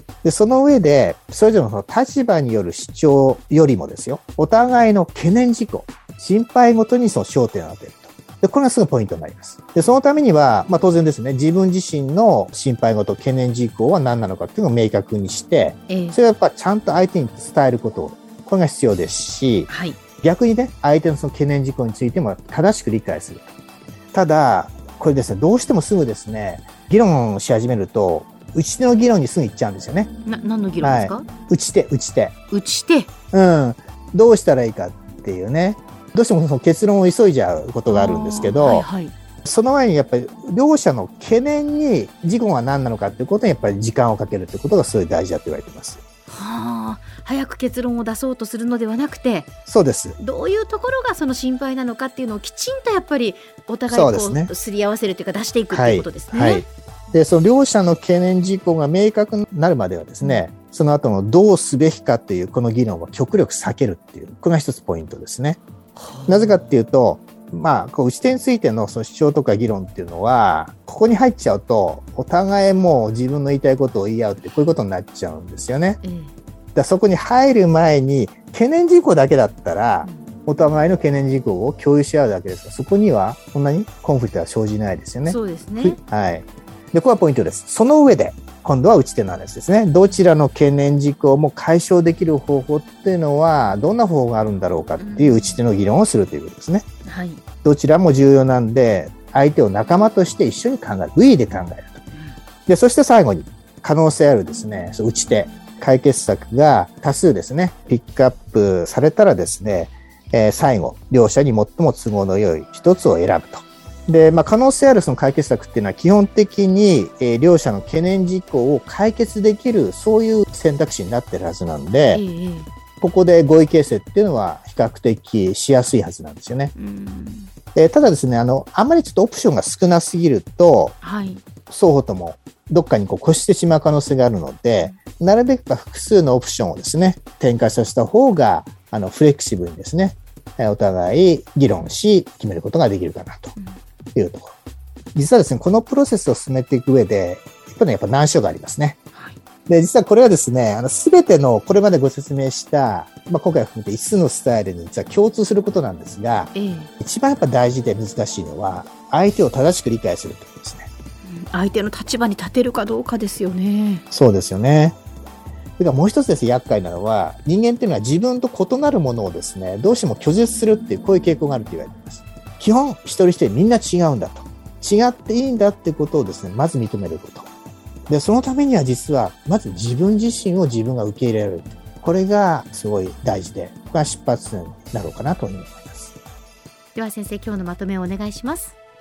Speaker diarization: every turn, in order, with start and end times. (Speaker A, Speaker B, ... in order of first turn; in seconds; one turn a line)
Speaker A: 0.2-19.7
Speaker B: 15.9-16.2
Speaker B: 19.7-20.0
Speaker A: 20.2-23.5
Speaker A: 24.1-30.1
Speaker B: 30.3-31.3
Speaker A: 30.8-32.3
Speaker B: 32.5-33.1
Speaker A: 33.3-38.9
Speaker B: 37.9-39.1
Speaker A: 39.4-46.0
Speaker B: 46.3-49.5
Speaker A: 49.7-50.2
Speaker B: 50.2-56.6
Speaker A: 53.9-54.5
Speaker A: 55.7-65.6
Speaker B: 66.0-66.7
Speaker A: 66.3-76.0
Speaker B: 76.0-76.3
Speaker A: 76.8-96.9
Speaker B: 85.3-86.0
Speaker B: 95.0-95.6
Speaker B: 97.0-97.4
Speaker A: 97.6-102.0
Speaker A: 102.7-122.2
Speaker B: 122.1-122.7
Speaker A: 123.0-126.7
Speaker B: 126.8-127.5
Speaker A: 127.8-130.9
Speaker B: 131.0-131.4
Speaker A: 131.7-143.6
Speaker A: 144.2-144.6
Speaker A: 145.2-149.0
Speaker A: 149.7-160.9
Speaker B: 156.5-156.9
Speaker B: 161.2-164.0
Speaker A: 164.1-165.0
Speaker A: 165.8-177.5
Speaker A: 178.1-186.2
Speaker B: 187.0-188.8